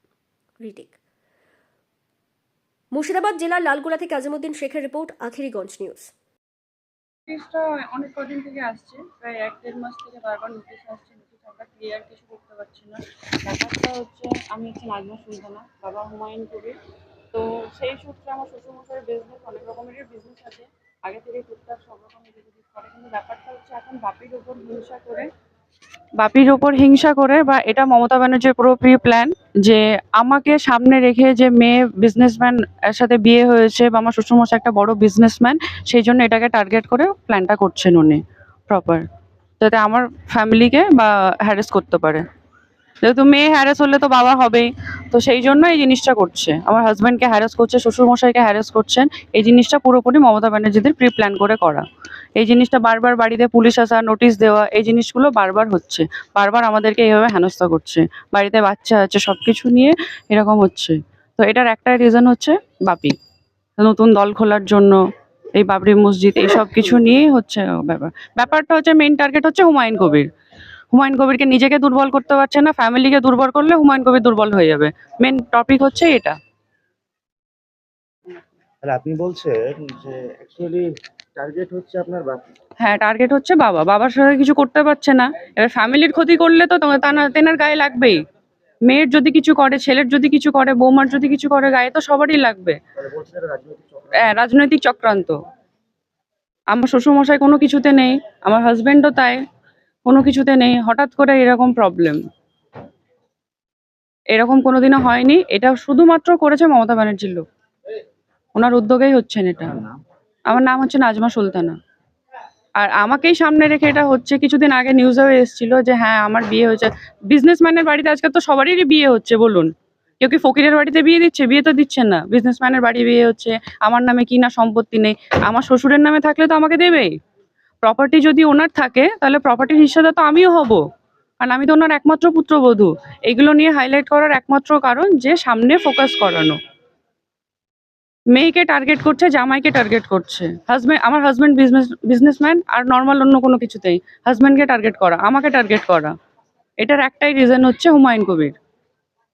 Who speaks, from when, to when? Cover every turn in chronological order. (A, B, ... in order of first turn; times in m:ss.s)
0:00.6-0:00.9 A
0:02.9-0:06.1 A
0:07.3-0:16.8 B
0:17.3-0:25.3 B
0:26.2-0:39.0 B
0:39.6-0:42.2 B
0:43.0-0:51.8 B
0:52.4-1:03.2 B
1:03.8-1:05.0 B
1:05.6-1:10.3 B
1:10.9-1:16.4 B
1:18.8-1:22.5 C
1:22.8-1:28.2 B
1:28.9-1:32.8 B
1:33.0-1:34.3 C
1:34.2-1:35.4 B
1:36.7-1:39.4 B
1:40.0-1:42.2 B
1:44.3-1:47.4 B
1:48.5-1:49.8 B
1:50.5-1:51.8 B
1:52.8-2:07.1 B
2:07.8-2:10.8 B
2:11.4-2:16.6 B
2:18.3-2:26.1 B
2:26.8-2:28.6 B